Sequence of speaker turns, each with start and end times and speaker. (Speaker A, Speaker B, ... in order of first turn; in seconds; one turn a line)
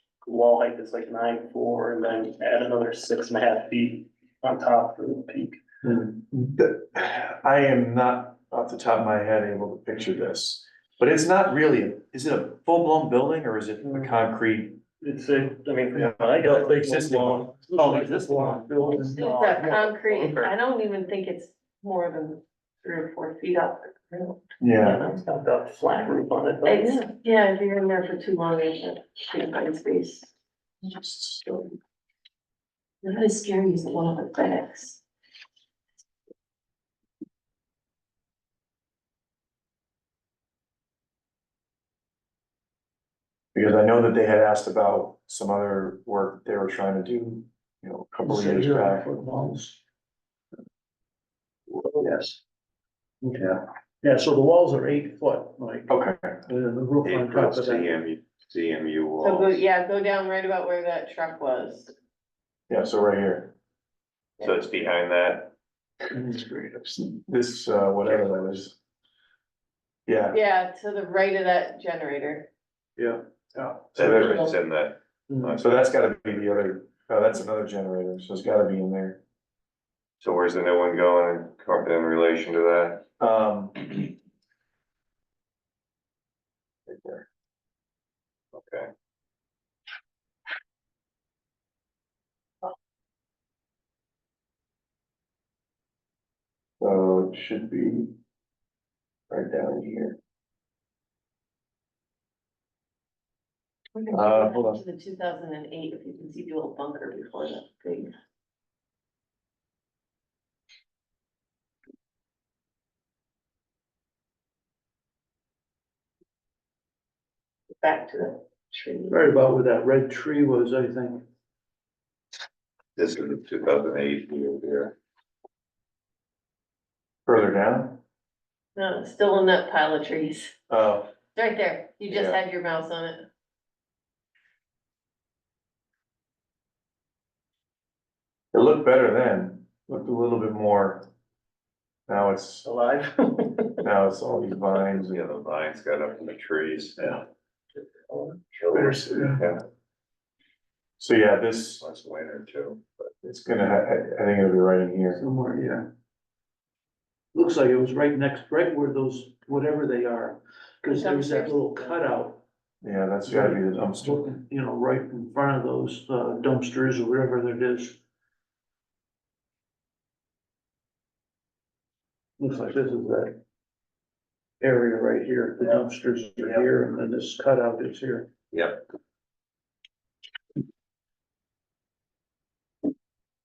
Speaker A: 0.2-5.6
Speaker B: 5.8-6.6
Speaker C: 6.5-14.8
Speaker A: 13.8-14.1
Speaker A: 15.0-20.5
Speaker C: 16.4-17.6
Speaker B: 17.7-19.7
Speaker D: 18.9-25.2
Speaker C: 24.6-25.1
Speaker A: 25.0-27.1
Speaker D: 26.7-30.3
Speaker C: 30.8-31.8
Speaker D: 33.0-35.0
Speaker C: 43.5-49.1
Speaker B: 48.2-49.8
Speaker B: 51.8-52.4
Speaker B: 53.2-55.9
Speaker C: 55.9-56.4
Speaker B: 56.5-57.9
Speaker E: 57.0-59.6
Speaker D: 59.2-61.9
Speaker C: 62.7-63.5
Speaker E: 64.4-65.5
Speaker B: 66.1-67.0
Speaker C: 67.1-68.8
Speaker C: 70.1-70.4
Speaker D: 70.3-72.5
Speaker C: 73.6-74.5
Speaker E: 74.0-75.8
Speaker D: 74.2-74.5
Speaker B: 75.3-75.6
Speaker C: 75.6-79.2
Speaker E: 80.2-83.1
Speaker C: 83.2-84.0
Speaker C: 86.9-87.2
Speaker E: 88.5-88.9
Speaker C: 96.8-98.1
Speaker C: 99.3-100.2
Speaker D: 104.0-108.1
Speaker C: 104.1-104.8
Speaker D: 117.8-119.2
Speaker B: 119.1-121.2
Speaker E: 123.0-125.0
Speaker C: 127.3-128.0
Speaker D: 128.8-130.6
Speaker C: 130.7-131.1
Speaker D: 131.3-133.3
Speaker C: 132.1-132.4
Speaker C: 138.5-141.1
Speaker C: 142.1-142.7
Speaker A: 142.6-143.8
Speaker C: 143.8-145.2
Speaker E: 144.9-147.2
Speaker E: 148.5-149.6
Speaker B: 148.7-149.4
Speaker C: 151.0-151.8
Speaker E: 151.8-153.1
Speaker C: 153.2-155.2
Speaker B: 155.1-155.9
Speaker B: 157.3-162.4
Speaker D: 160.9-162.0
Speaker C: 162.8-164.3
Speaker B: 163.2-168.0
Speaker B: 172.4-173.4
Speaker B: 174.6-178.3
Speaker E: 178.5-178.8